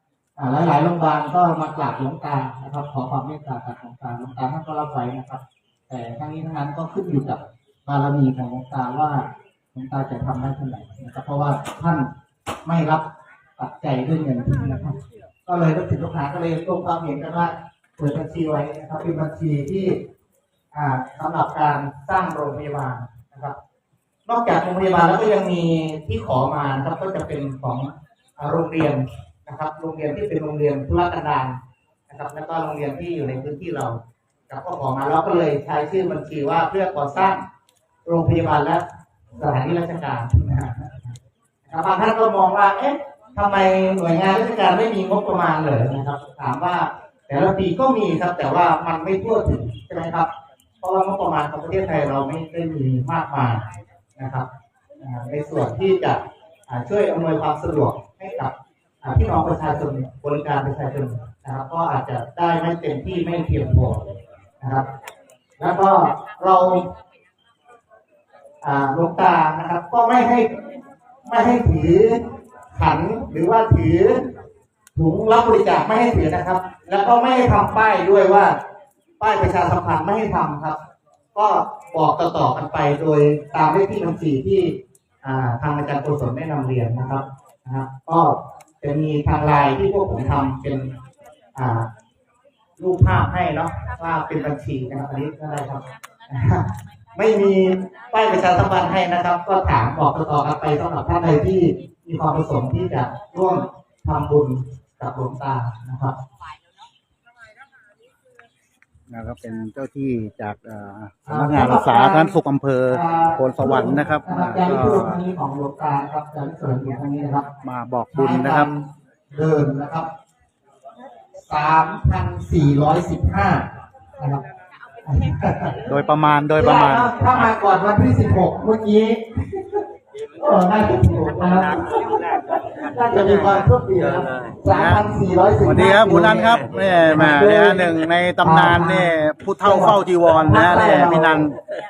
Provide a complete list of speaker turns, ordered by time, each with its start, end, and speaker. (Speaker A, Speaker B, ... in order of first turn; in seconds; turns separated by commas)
Speaker A: 0.4-12.1, Speaker A: 12.7-20.0, Speaker A: 20.7-23.6, Speaker A: 24.3-37.5, Speaker A: 38.0-38.9, Speaker A: 39.4-41.2, Speaker A: 41.7-50.3, Speaker A: 50.8-53.6, Speaker A: 54.2-54.5, Speaker A: 55.0-64.9, Speaker A: 65.6-66.9, Speaker A: 68.6-70.5, Speaker A: 71.3-74.3, Speaker A: 75.0-78.6, Speaker A: 79.2-80.8, Speaker A: 81.3-91.0, Speaker A: 91.5-91.9, Speaker A: 92.8-106.2, Speaker B: 109.1-115.2, Speaker A: 111.3-112.3, Speaker A: 112.9-117.5, Speaker B: 117.6-118.9, Speaker A: 118.1-118.7, Speaker A: 119.3-120.1, Speaker A: 121.4-123.7, Speaker A: 125.0-125.8, Speaker B: 125.8-127.5, Speaker A: 126.6-129.8, Speaker A: 130.4-141.5, Speaker B: 133.3-133.6, Speaker B: 134.7-135.1, Speaker B: 135.6-141.6